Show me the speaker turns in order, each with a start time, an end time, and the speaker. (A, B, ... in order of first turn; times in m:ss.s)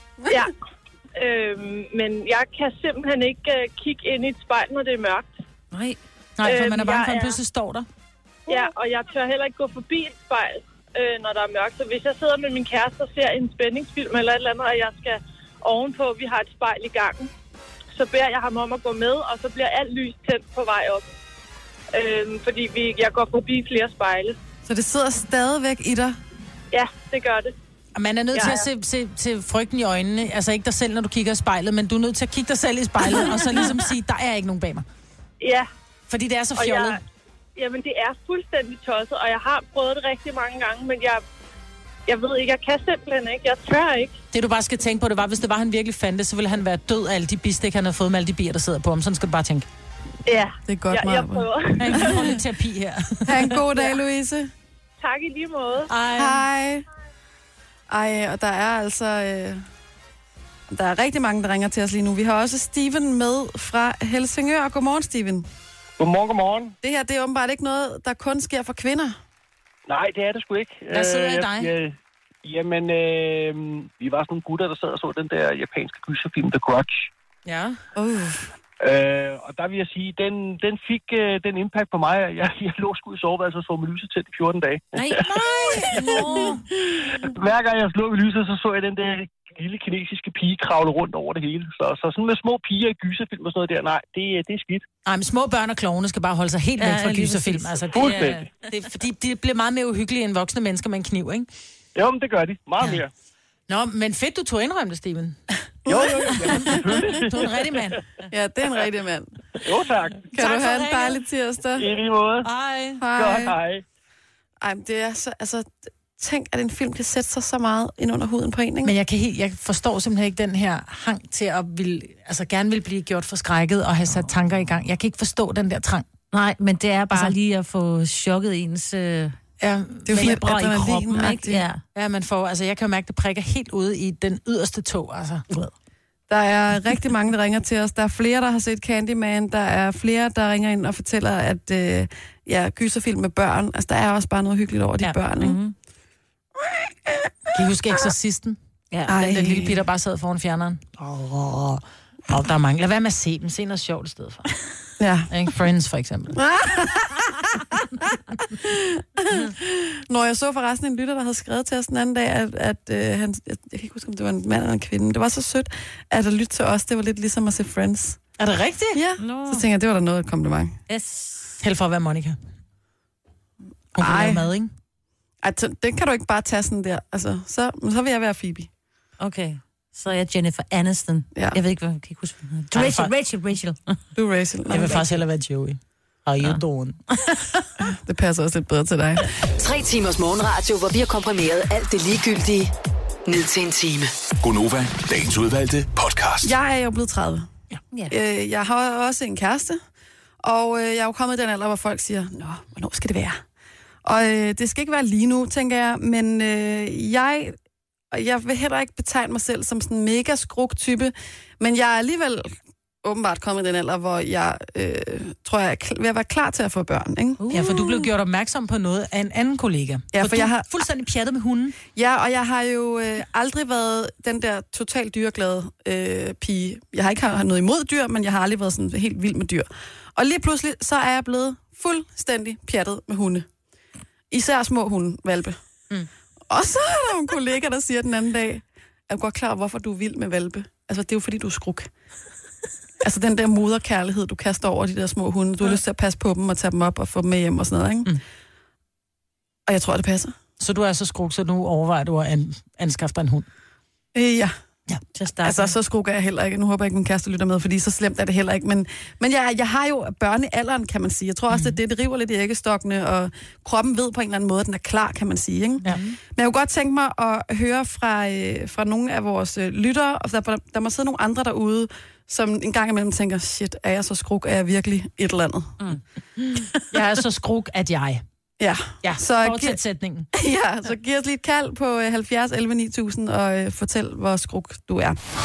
0:01.2-0:05.4 A
0:05.7-0:06.0 B
0:06.4-0:07.9 C
0:06.4-0:07.4 A
0:08.5-0:17.3 A
0:18.0-0:21.0 A
0:21.9-0:24.4 A
0:24.7-0:26.2 D
0:26.7-0:27.5 A
0:28.0-0:34.9 C
0:28.4-0:28.6 A
0:35.4-0:35.7 A
0:36.1-0:37.0 C
0:36.6-0:37.0 A
0:37.6-0:41.2 A
0:42.1-0:44.2 A
0:44.3-0:49.7 C
0:50.3-0:52.4 A
0:50.7-0:52.3 D
0:51.8-0:53.6 C
0:53.3-0:54.5 D
0:55.0-0:55.9 A
0:55.9-0:56.4 C
0:56.2-0:56.8 D
0:57.9-0:59.6 D
1:00.7-1:05.5 D
1:06.0-1:06.7 E
1:06.8-1:09.2 D
1:09.9-1:17.1 E
1:10.9-1:11.7 C
1:17.5-1:17.8 C
1:18.0-1:18.5 D
1:18.8-1:26.0 E
1:25.0-1:26.6 B
1:25.1-1:26.6 C
1:27.2-1:34.9 E
1:35.0-1:41.5 C
1:36.8-1:38.5 B
1:37.9-1:38.4 E
1:42.0-1:43.1 E
1:43.7-1:45.4 C
1:45.9-1:47.7 E
1:46.4-1:48.0 C
1:48.3-1:49.3 D
1:49.6-1:50.3 E
1:50.3-1:52.0 D
1:50.4-1:51.2 C
1:51.8-1:52.4 E
1:52.4-1:53.0 C
1:53.0-1:53.6 D
1:53.2-1:53.6 E
1:54.6-1:59.0 D
1:58.8-2:06.1 C
2:06.3-2:09.4 B
2:09.6-2:10.4 C
2:10.0-2:11.6 D
2:10.1-2:11.8 B
2:12.0-2:15.5 C
2:16.3-2:25.6 D
2:25.4-2:25.7 B
2:26.6-2:27.6 D
2:27.5-2:28.6 C
2:28.9-2:29.3 B
2:29.1-2:29.8 D
2:29.2-2:34.4 C
2:35.0-2:35.3 D
2:35.3-2:36.4 C
2:36.3-2:48.2 D
2:48.4-2:49.0 C
2:48.9-2:50.8 D
2:49.2-2:49.6 B
2:50.9-2:51.6 B
2:51.6-2:52.4 C
2:54.0-2:54.7 C
2:54.0-2:54.5 D
2:55.4-2:58.7 D
2:59.2-3:04.0 B
3:02.7-3:03.1 C
3:04.2-3:05.1 D
3:04.7-3:07.0 C
3:07.1-3:07.4 B
3:07.8-3:09.3 D
3:09.6-3:12.7 F
3:13.3-3:14.1 F
3:14.4-3:16.6 G
3:16.4-3:17.5 D
3:18.1-3:19.8 D
3:20.4-3:23.4 D
3:24.0-3:27.6 D
3:28.1-3:37.4 D
3:37.4-3:37.9 B
3:37.5-3:41.8 C
3:40.1-3:40.7 D
3:41.9-3:53.5 D
3:54.3-3:55.6 D
3:56.5-4:01.9 D
4:03.0-4:08.1 D
4:09.7-4:10.3 D
4:10.6-4:13.5 C
4:14.2-4:14.5 D
4:15.1-4:15.8 B
4:15.4-4:25.8 D
4:21.5-4:21.8 C
4:25.9-4:26.2 B
4:26.4-4:35.8 D
4:36.4-4:38.2 C
4:36.6-4:36.8 B
4:38.6-4:39.8 D
4:39.0-4:40.3 C
4:40.3-4:45.2 D